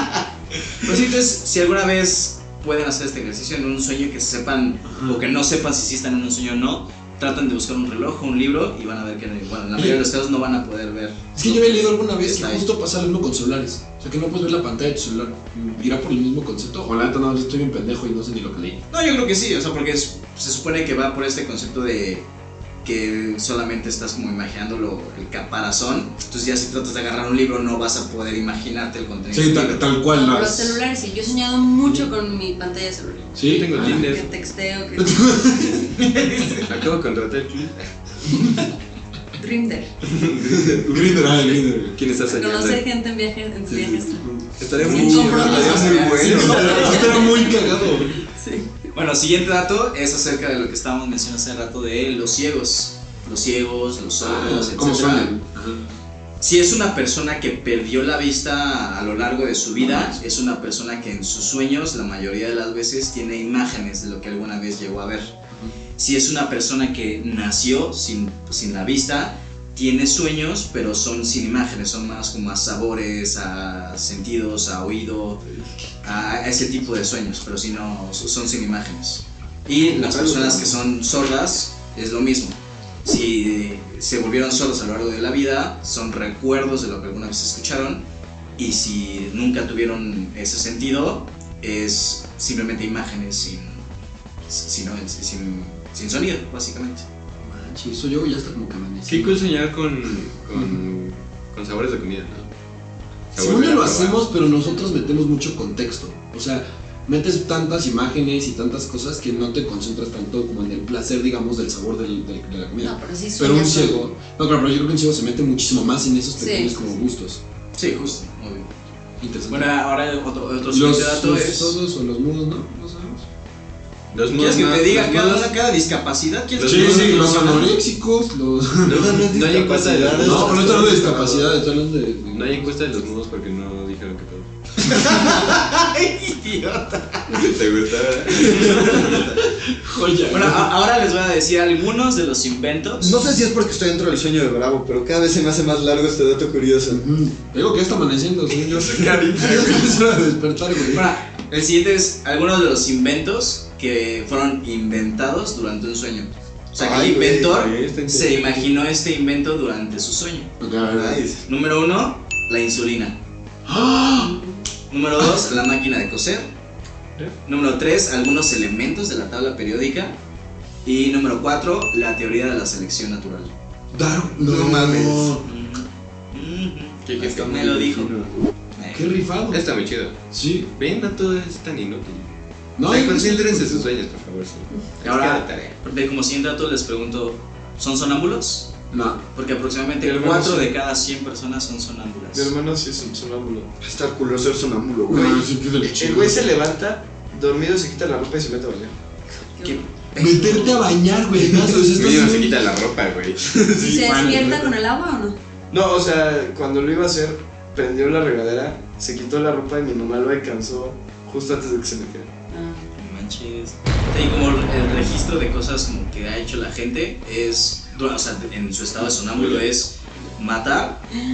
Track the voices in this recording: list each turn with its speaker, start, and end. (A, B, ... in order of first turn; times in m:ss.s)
0:00.8-0:12.6 A
0:04.8-0:05.2 B
0:09.8-0:10.0 B
0:11.3-0:18.8 B
0:18.9-0:22.2 A
0:22.8-0:29.9 A
0:29.3-0:30.8 B
0:30.1-0:35.9 C
0:33.3-0:34.1 B
0:33.4-0:34.3 D
0:35.0-0:35.9 B
0:36.1-0:36.6 A
0:36.6-0:37.8 D
0:39.4-0:39.9 C
0:40.1-0:42.8 D
0:40.6-0:42.0 B
0:42.3-0:46.0 C
0:43.7-0:48.2 B
0:44.6-0:45.7 D
0:44.8-0:47.6 A
0:45.4-0:46.8 E
0:46.6-0:48.7 C
0:48.9-0:55.4 A
0:54.2-0:55.9 B
0:56.4-1:05.4 A
1:05.5-1:05.8 B
1:05.9-1:15.4 A
1:16.0-1:28.0 A
1:20.0-1:20.7 E
1:28.6-1:33.8 A
1:34.5-1:37.0 A
1:37.4-1:39.4 B
1:39.1-1:42.5 D
1:43.3-1:44.3 D
1:43.4-1:57.4 B
1:52.8-1:54.0 C
1:56.4-1:56.7 C
1:57.7-1:58.7 A
1:59.2-1:59.8 B
1:59.5-2:01.8 A
2:00.7-2:03.2 B
2:04.1-2:05.5 D
2:04.2-2:07.8 A
2:06.6-2:07.6 D
2:06.6-2:09.1 B
2:08.8-2:11.0 D
2:08.8-2:11.6 E
2:10.1-2:12.7 B
2:12.3-2:14.5 D
2:14.8-2:17.5 A
2:17.3-2:19.1 D
2:18.5-2:20.7 B
2:18.5-2:19.4 A
2:20.2-2:23.2 A
2:23.0-2:27.0 E
2:26.9-2:31.1 B
2:28.5-2:30.0 F
2:30.9-2:40.6 A
2:36.8-2:37.7 E
2:37.5-2:38.7 F
2:40.6-2:41.2 B
2:40.9-2:41.4 E
2:41.4-2:43.2 A
2:43.6-2:44.4 B
2:44.9-2:46.5 A
2:47.4-2:50.2 A
2:50.8-2:53.5 A
2:53.9-2:55.4 B
2:54.4-2:55.4 E
2:55.4-2:58.1 A
2:57.2-2:58.1 F
2:57.5-2:58.2 E
2:58.8-2:59.2 A
2:58.9-2:59.6 B
2:59.5-3:05.7 D
3:00.3-3:00.7 B
3:02.8-3:03.9 B
3:05.0-3:12.5 A
3:08.9-3:09.2 B
3:10.0-3:10.7 F
3:12.3-3:13.7 F
3:13.8-3:15.4 E
3:15.1-3:16.5 B
3:15.8-3:18.9 F
3:19.5-3:19.8 C
3:19.6-3:20.9 A
3:20.2-3:22.6 B
3:21.9-3:23.4 D
3:23.8-3:25.4 C
3:23.8-3:24.4 F
3:23.9-3:24.7 B
3:25.7-3:32.3 F
3:32.5-3:32.9 C
3:33.0-3:41.0 A